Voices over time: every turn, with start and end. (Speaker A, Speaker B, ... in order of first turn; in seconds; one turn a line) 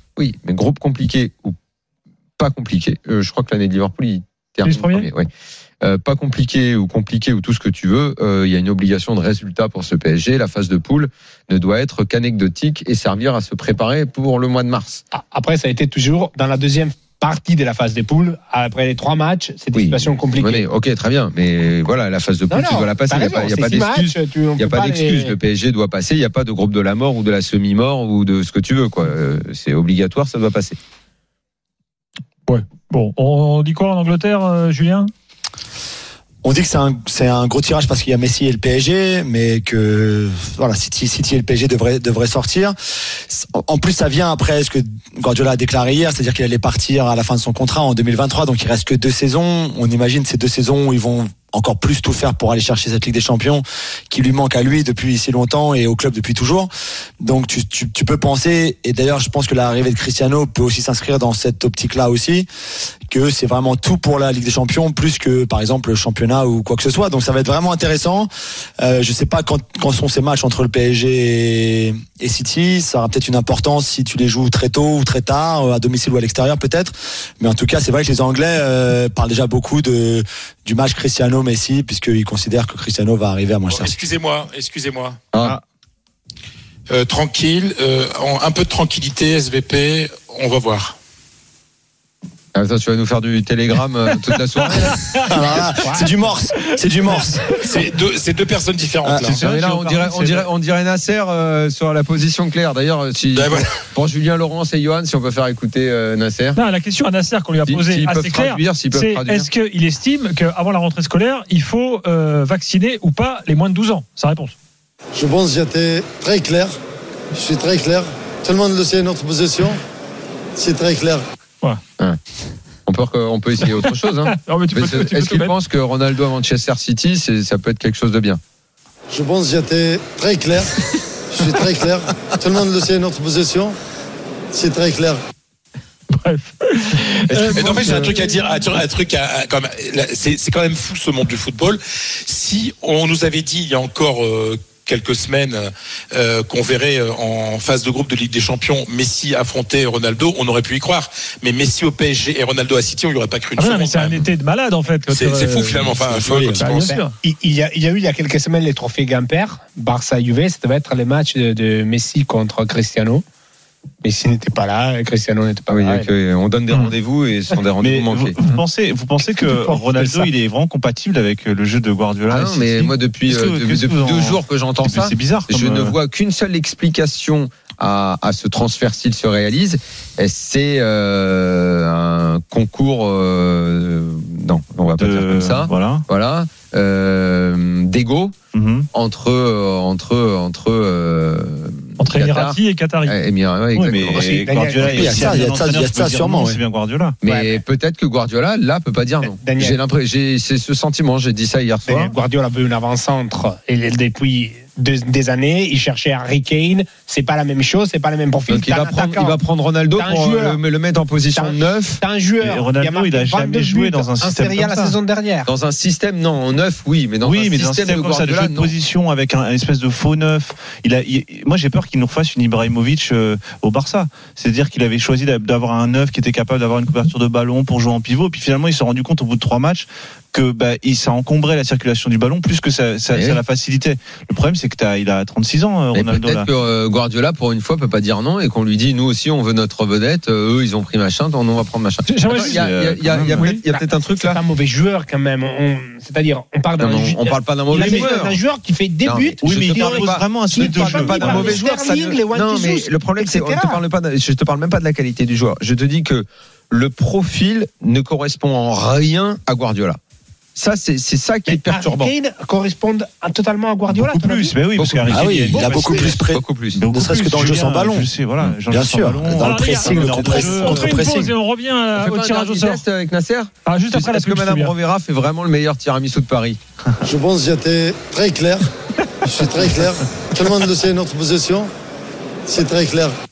Speaker A: 0.2-1.6
Speaker A: 2.4-5.3
Speaker B: 4.6-5.1
Speaker A: 5.8-15.0
Speaker C: 15.1-20.7
Speaker A: 19.7-30.8
Speaker C: 22.5-25.4
Speaker B: 32.5-35.1
Speaker D: 36.4-42.8
Speaker D: 43.3-56.7
Speaker D: 57.2-62.5
Speaker D: 63.1-68.3
Speaker D: 68.8-84.0
Speaker E: 83.7-85.2
Speaker E: 86.9-91.0
Speaker A: 92.5-95.3
Speaker D: 95.1-97.6
Speaker C: 95.8-96.2
Speaker E: 97.6-99.4
Speaker D: 99.0-99.4
Speaker A: 99.3-106.6
Speaker F: 99.4-100.4
Speaker E: 103.3-103.7
Speaker B: 106.6-114.6
Speaker A: 107.7-109.5
Speaker G: 115.1-116.8
Speaker G: 117.3-119.8
Speaker G: 120.6-121.2
Speaker A: 122.9-128.4
Speaker B: 124.3-125.5
Speaker G: 129.1-130.8
Speaker G: 131.3-133.8
Speaker G: 134.5-135.2
Speaker B: 136.1-138.6
Speaker E: 137.5-154.3
Speaker B: 153.6-156.0
Speaker E: 155.1-157.0
Speaker D: 155.9-156.7
Speaker B: 156.6-157.1
Speaker C: 156.8-163.2
Speaker C: 164.0-166.1
Speaker A: 165.7-168.4
Speaker F: 167.8-176.0
Speaker C: 169.4-169.8
Speaker A: 172.3-188.3
Speaker F: 185.0-186.1
Speaker F: 188.5-188.9
Speaker A: 188.9-194.5
Speaker B: 192.0-193.2
Speaker F: 193.7-197.2
Speaker C: 194.2-195.6
Speaker D: 194.9-196.6
Speaker A: 197.2-202.1
Speaker C: 197.3-197.6
Speaker C: 199.2-199.8
Speaker C: 201.8-209.4
Speaker A: 208.5-212.0
Speaker C: 209.9-210.6
Speaker C: 211.3-215.5
Speaker F: 212.4-215.0
Speaker A: 215.4-218.8
Speaker F: 217.2-236.5
Speaker A: 233.1-233.4
Speaker A: 235.9-244.4
Speaker B: 242.1-242.6
Speaker F: 242.3-243.6
Speaker C: 243.7-253.8
Speaker A: 246.8-248.4
Speaker A: 249.0-260.0
Speaker F: 249.4-251.7
Speaker A: 260.6-262.1
Speaker C: 261.5-264.6
Speaker F: 263.9-266.2
Speaker A: 264.7-265.2
Speaker D: 265.1-268.1
Speaker C: 265.8-266.1
Speaker A: 266.3-266.8
Speaker F: 266.8-270.9
Speaker D: 268.7-271.3
Speaker B: 269.4-272.8
Speaker A: 271.9-276.6
Speaker B: 273.6-274.7
Speaker G: 277.0-278.7
Speaker G: 279.2-281.7
Speaker G: 282.5-283.2